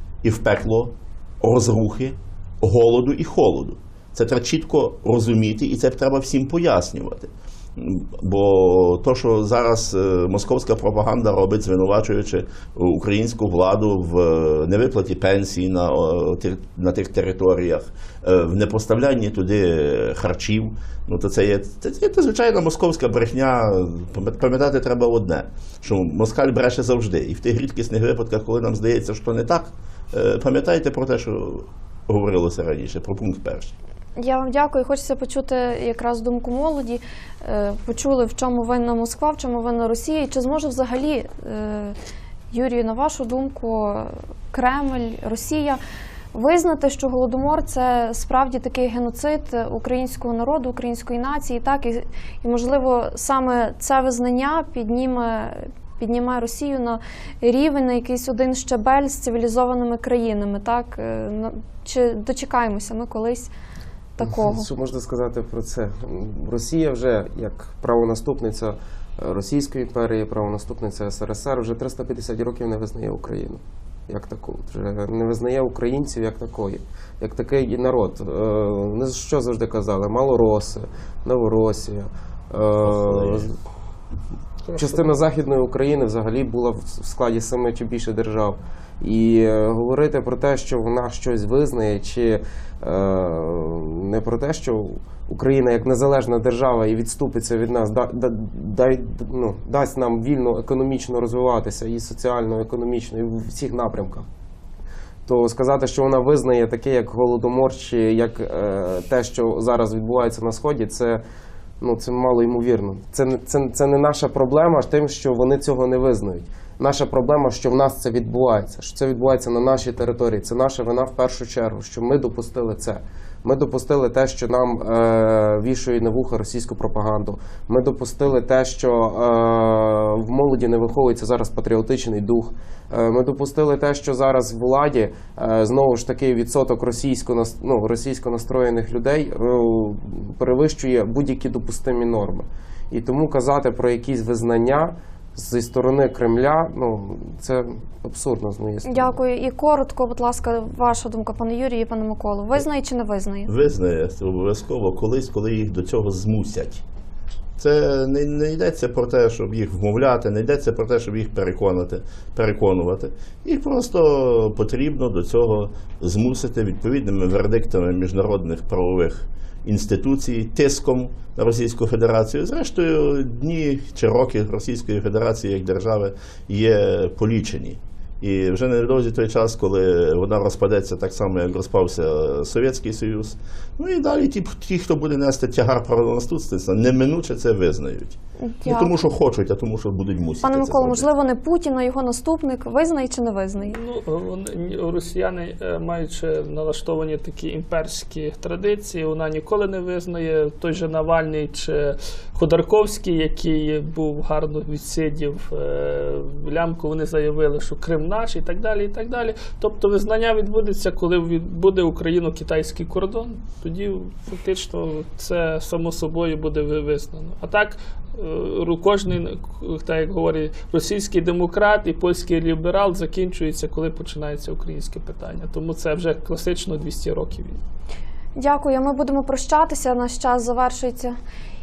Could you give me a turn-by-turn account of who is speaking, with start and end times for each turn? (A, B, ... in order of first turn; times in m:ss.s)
0:00.2-0:33.8 A
0:34.2-0:42.0 B
0:42.5-0:45.8 B
0:46.3-1:03.5 B
1:04.2-1:04.7 B
1:04.2-1:23.6 C
1:22.8-1:23.5 A
1:24.7-1:25.0 D
1:24.8-1:44.3 C
1:45.3-1:51.2 C
1:51.8-2:29.2 C
2:28.9-2:33.5 B
2:33.5-2:36.8 A
2:37.6-3:11.1 A
3:08.4-3:08.9 B
3:10.4-3:13.8 B
3:13.6-3:47.6 D
3:48.4-3:51.2 B